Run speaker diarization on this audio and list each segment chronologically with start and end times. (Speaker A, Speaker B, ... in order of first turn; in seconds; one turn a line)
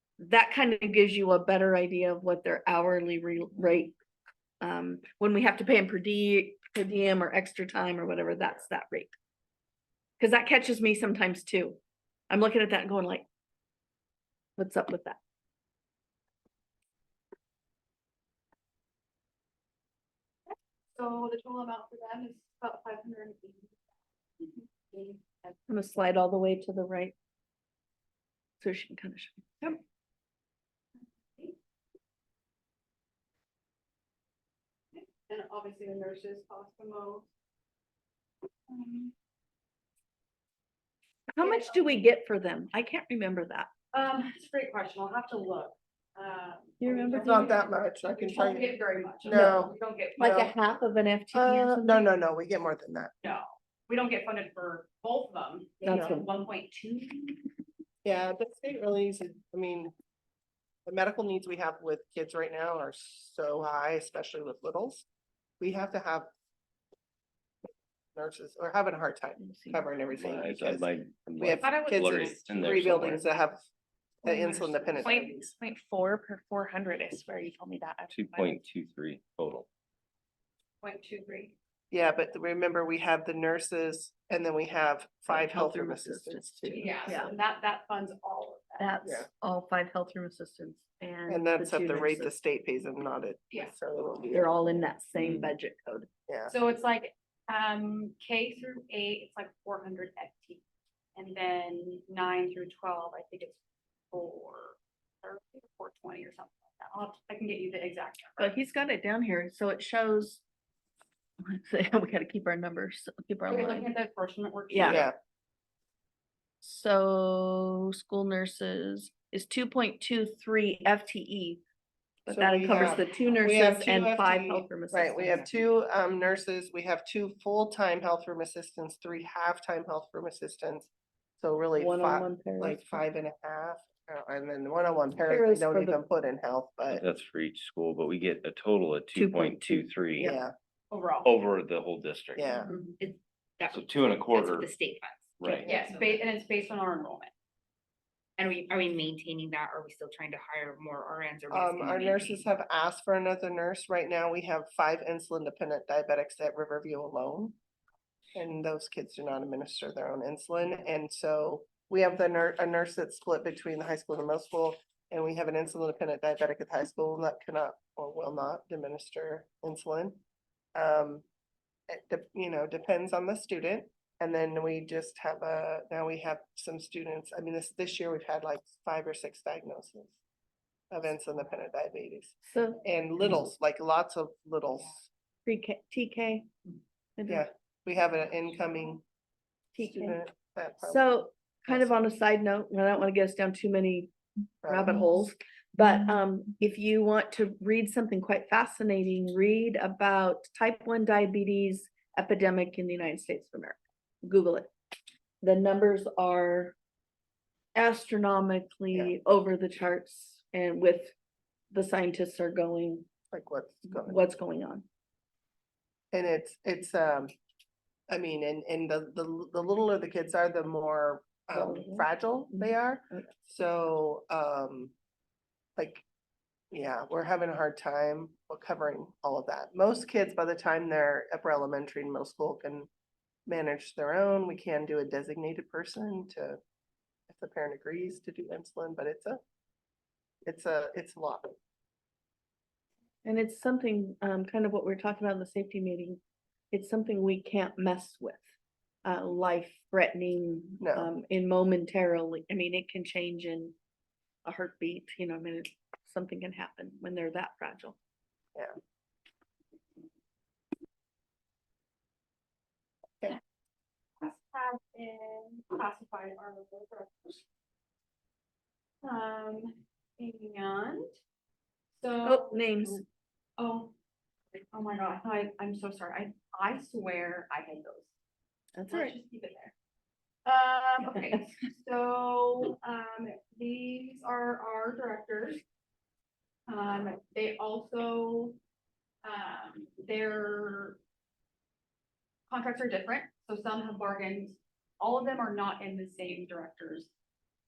Speaker A: 0.2-4.0
Speaker A: 4.6-9.1
Speaker A: 10.2-11.8
Speaker A: 12.3-13.3
Speaker A: 14.6-15.2
Speaker B: 20.9-23.8
Speaker B: 24.4-25.6
Speaker A: 25.7-27.1
Speaker A: 28.6-29.8
Speaker B: 31.3-31.6
Speaker B: 34.9-37.3
Speaker B: 38.7-39.1
Speaker A: 41.3-43.7
Speaker B: 41.4-42.0
Speaker B: 43.9-50.6
Speaker A: 46.8-47.5
Speaker C: 47.1-48.7
Speaker C: 49.2-50.5
Speaker A: 49.3-49.7
Speaker A: 50.2-52.0
Speaker C: 51.3-53.1
Speaker B: 53.2-57.4
Speaker D: 55.8-56.1
Speaker A: 55.9-56.3
Speaker C: 55.9-56.2
Speaker C: 58.0-59.9
Speaker C: 60.9-65.1
Speaker C: 65.6-66.3
Speaker C: 68.2-73.6
Speaker A: 69.4-69.9
Speaker E: 70.2-73.2
Speaker F: 71.6-72.0
Speaker C: 74.2-75.5
Speaker F: 74.3-78.6
Speaker B: 75.0-75.5
Speaker E: 78.1-79.7
Speaker B: 80.8-81.5
Speaker C: 81.9-87.3
Speaker A: 85.3-87.3
Speaker B: 86.7-88.9
Speaker A: 88.8-92.3
Speaker C: 89.0-89.3
Speaker C: 91.3-94.9
Speaker A: 94.3-96.1
Speaker E: 95.2-95.5
Speaker C: 96.3-96.5
Speaker B: 96.5-100.6
Speaker B: 101.2-103.6
Speaker B: 104.1-108.5
Speaker A: 108.4-110.4
Speaker A: 111.4-113.9
Speaker B: 113.5-115.1
Speaker A: 114.7-115.0
Speaker C: 114.8-115.2
Speaker A: 116.6-121.6
Speaker A: 122.3-125.5
Speaker C: 122.3-137.0
Speaker A: 131.8-133.0
Speaker A: 135.3-136.0
Speaker E: 136.9-140.3
Speaker A: 139.2-140.4
Speaker C: 140.2-140.5
Speaker B: 140.9-141.4
Speaker E: 141.2-142.6
Speaker C: 142.4-142.7
Speaker B: 142.7-142.9
Speaker D: 143.0-146.2
Speaker E: 143.7-144.7
Speaker E: 145.4-145.7
Speaker B: 145.6-147.3
Speaker D: 148.4-152.5
Speaker C: 151.5-157.6
Speaker C: 158.3-170.2
Speaker C: 170.8-171.2
Speaker C: 171.9-180.2
Speaker C: 180.9-185.1
Speaker A: 182.5-182.8
Speaker A: 185.5-186.5
Speaker A: 187.2-187.5
Speaker C: 187.3-189.0
Speaker A: 189.8-190.2
Speaker C: 189.8-191.9
Speaker A: 190.8-194.1
Speaker C: 194.6-195.1
Speaker A: 194.7-204.7
Speaker A: 205.4-206.8
Speaker A: 207.8-211.1
Speaker A: 211.7-213.1
Speaker C: 213.3-214.2
Speaker A: 213.9-214.8
Speaker C: 216.1-217.3
Speaker C: 218.1-224.9
Speaker A: 221.5-223.3
Speaker C: 225.8-226.0
Speaker C: 226.7-232.9
Speaker C: 233.5-236.6
Speaker C: 237.3-239.4
Speaker C: 240.4-241.5
Speaker A: 243.2-246.2
Speaker A: 246.7-248.4
Speaker A: 249.0-253.8
Speaker C: 250.8-251.1
Speaker A: 254.4-258.0
Speaker B: 264.2-267.4
Speaker B: 269.0-271.1
Speaker B: 271.9-273.0
Speaker A: 272.2-273.0
Speaker B: 273.6-273.9
Speaker B: 274.7-278.1
Speaker A: 278.8-279.1
Speaker B: 278.9-279.7
Speaker B: 280.5-285.6
Speaker B: 286.7-288.6
Speaker B: 289.2-291.0
Speaker B: 292.5-297.1